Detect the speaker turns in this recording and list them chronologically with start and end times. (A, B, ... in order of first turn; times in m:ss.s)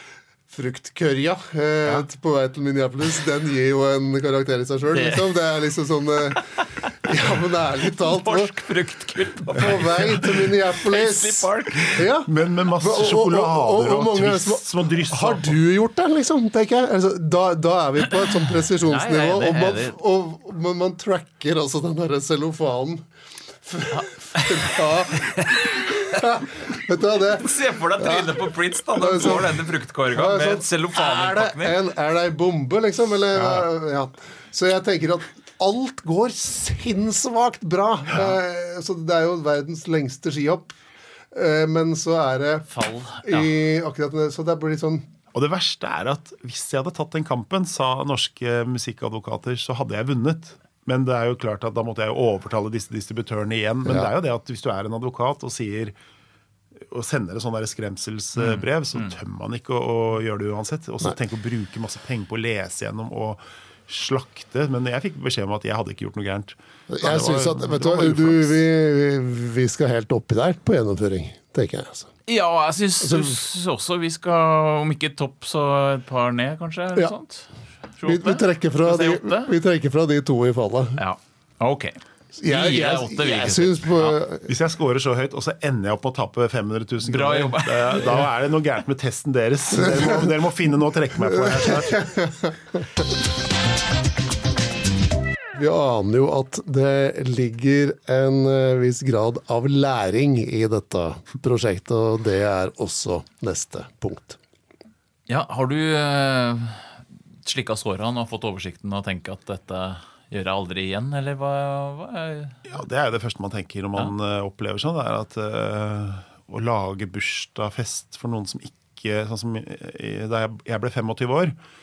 0:00.5-0:06.5 A
0:04.9-0:05.3 B
0:06.8-0:07.1 B
0:07.0-0:08.5 A
0:08.0-0:12.0 B
0:09.5-0:23.0 A
0:12.3-0:15.6 C
0:18.8-0:20.0 B
0:23.6-0:40.7 A
0:23.9-0:26.4 B
0:27.3-0:31.8 B
0:41.3-0:45.0 A
0:42.7-0:43.5 B
0:45.3-0:56.0 C
0:56.8-1:08.6 C
0:58.4-0:58.6 B
1:06.9-1:12.1 A
1:12.3-1:19.5 B
1:13.0-1:13.4 A
1:18.0-1:21.0 A
1:21.0-1:24.2 B
1:22.4-1:24.5 A
1:24.5-1:32.0 C
1:27.0-1:28.2 B
1:29.8-1:30.3 A
1:31.2-1:32.9 A
1:35.6-1:44.4 A
1:45.3-1:52.6 B
1:52.7-2:01.6 C